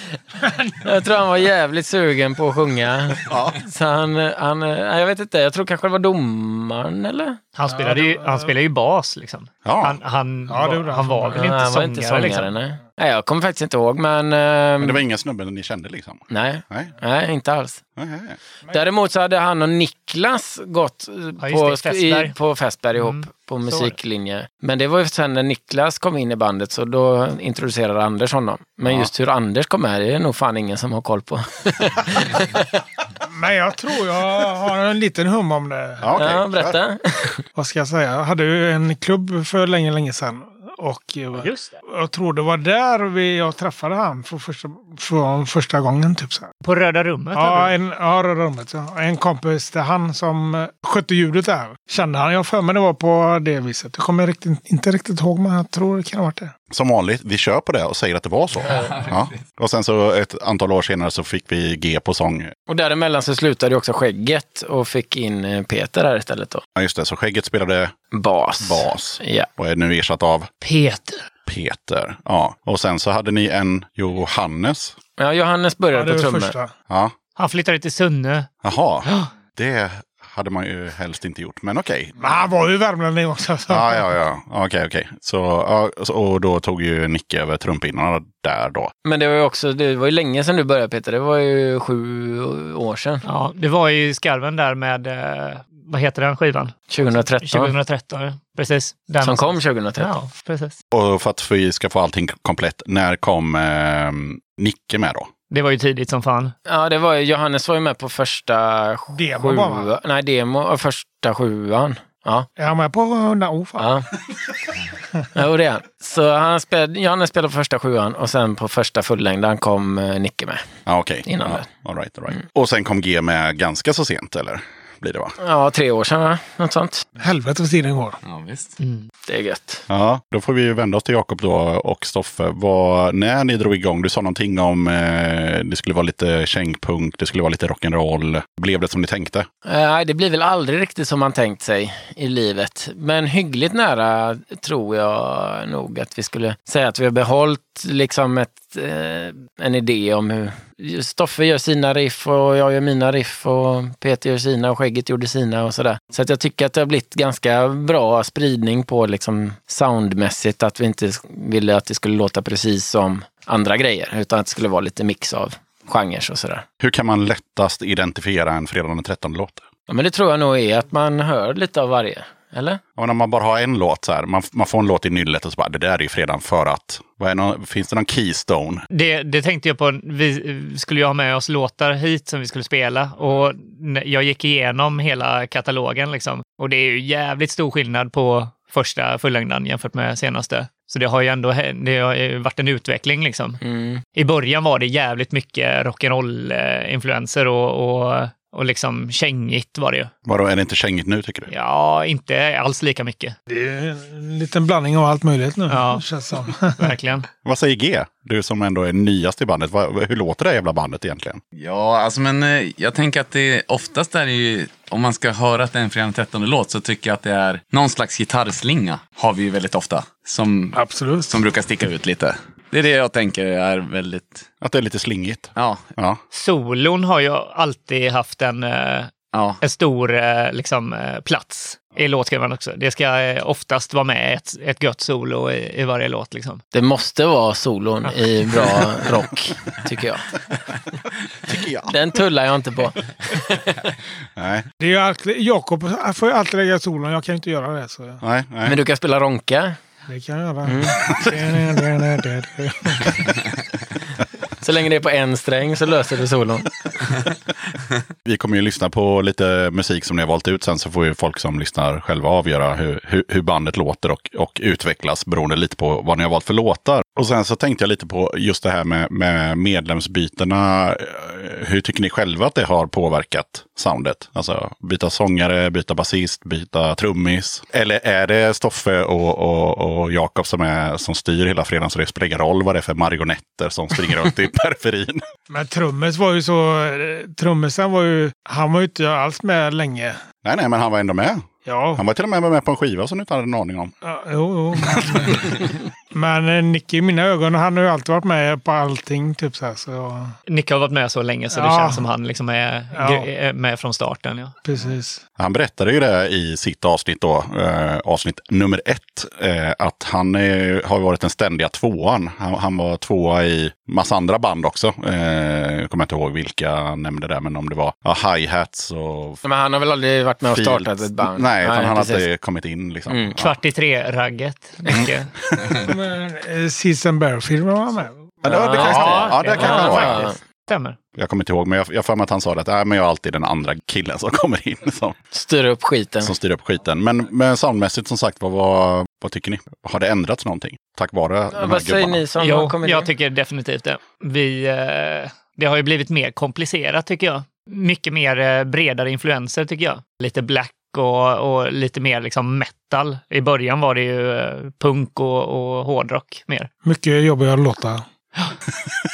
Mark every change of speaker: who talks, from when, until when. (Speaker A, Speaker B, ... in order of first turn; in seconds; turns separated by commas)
Speaker A: 0.5-0.8, Speaker B: 0.8-7.4, Speaker C: 3.2-3.6, Speaker D: 7.5-12.5, Speaker A: 7.7-8.5, Speaker C: 9.6-10.0, Speaker A: 10.5-11.4, Speaker B: 11.3-15.0, Speaker C: 14.8-16.9, Speaker B: 16.3-17.8, Speaker C: 18.0-18.4, Speaker B: 18.7-32.6, Speaker D: 21.4-22.3, Speaker D: 22.9-24.0, Speaker C: 28.8-29.1, Speaker A: 33.2-36.0, Speaker C: 36.0-36.8, Speaker B: 36.1-37.4, Speaker A: 37.5-46.5, Speaker D: 41.4-41.7, Speaker D: 46.6-47.7, Speaker A: 47.3-56.5, Speaker C: 56.7-62.5, Speaker E: 58.8-59.2, Speaker B: 62.7-66.6, Speaker C: 66.7-68.0, Speaker B: 68.1-69.5, Speaker C: 68.6-70.5, Speaker D: 70.6-71.2, Speaker C: 71.5-75.0, Speaker B: 75.2-76.5, Speaker A: 75.9-76.7, Speaker C: 76.9-77.2, Speaker D: 77.3-78.5, Speaker C: 78.6-82.4, Speaker D: 79.0-79.3, Speaker A: 82.2-84.0, Speaker C: 83.7-88.9, Speaker B: 89.0-93.2, Speaker D: 93.2-100.8, Speaker B: 96.9-97.7, Speaker B: 99.2-100.1, Speaker C: 100.9-105.3, Speaker D: 105.5-106.5, Speaker B: 106.7-112.5, Speaker A: 109.1-109.9, Speaker A: 112.6-113.9, Speaker B: 113.8-114.1, Speaker B: 115.3-120.7, Speaker C: 120.8-125.3, Speaker B: 121.2-121.6, Speaker B: 125.4-127.0, Speaker A: 127.2-128.2, Speaker E: 128.2-128.8, Speaker D: 128.8-129.1, Speaker B: 129.2-129.8, Speaker C: 129.9-139.5, Speaker B: 139.6-166.6, Speaker C: 166.8-169.7, Speaker B: 169.9-172.8, Speaker C: 173.0-178.8, Speaker D: 178.9-193.6, Speaker B: 193.6-194.0, Speaker D: 194.1-200.1, Speaker C: 200.2-201.5, Speaker D: 201.5-203.3, Speaker A: 203.5-206.8, Speaker D: 205.7-206.0, Speaker D: 206.8-207.3, Speaker C: 207.4-211.4, Speaker E: 211.6-224.5, Speaker A: 220.7-221.4, Speaker C: 224.6-226.2, Speaker E: 225.6-225.8, Speaker D: 226.3-236.6, Speaker E: 229.3-229.6, Speaker B: 236.7-240.3, Speaker C: 241.4-241.9, Speaker B: 241.9-243.9, Speaker C: 244.3-244.7, Speaker A: 244.8-248.2, Speaker C: 248.2-248.8, Speaker B: 248.6-249.8, Speaker A: 250.1-253.2, Speaker B: 250.7-251.0, Speaker B: 254.6-256.7, Speaker C: 258.2-285.2, Speaker A: 285.5-290.2, Speaker C: 290.4-293.9, Speaker A: 291.6-292.0, Speaker A: 294.0-300.3, Speaker C: 294.9-295.6, Speaker D: 300.5-304.5, Speaker A: 301.5-302.0, Speaker A: 302.9-303.3, Speaker A: 304.6-305.2, Speaker C: 305.4-319.4, Speaker B: 319.4-322.3, Speaker C: 320.4-323.6, Speaker B: 323.1-323.4, Speaker D: 323.4-325.3, Speaker C: 324.9-325.7, Speaker A: 325.8-330.0, Speaker C: 328.4-330.2, Speaker B: 328.5-330.3, Speaker D: 328.8-331.0, Speaker C: 331.1-335.1, Speaker B: 335.3-336.3, Speaker C: 336.2-342.2, Speaker B: 341.5-343.1, Speaker D: 342.4-356.7, Speaker A: 356.8-358.0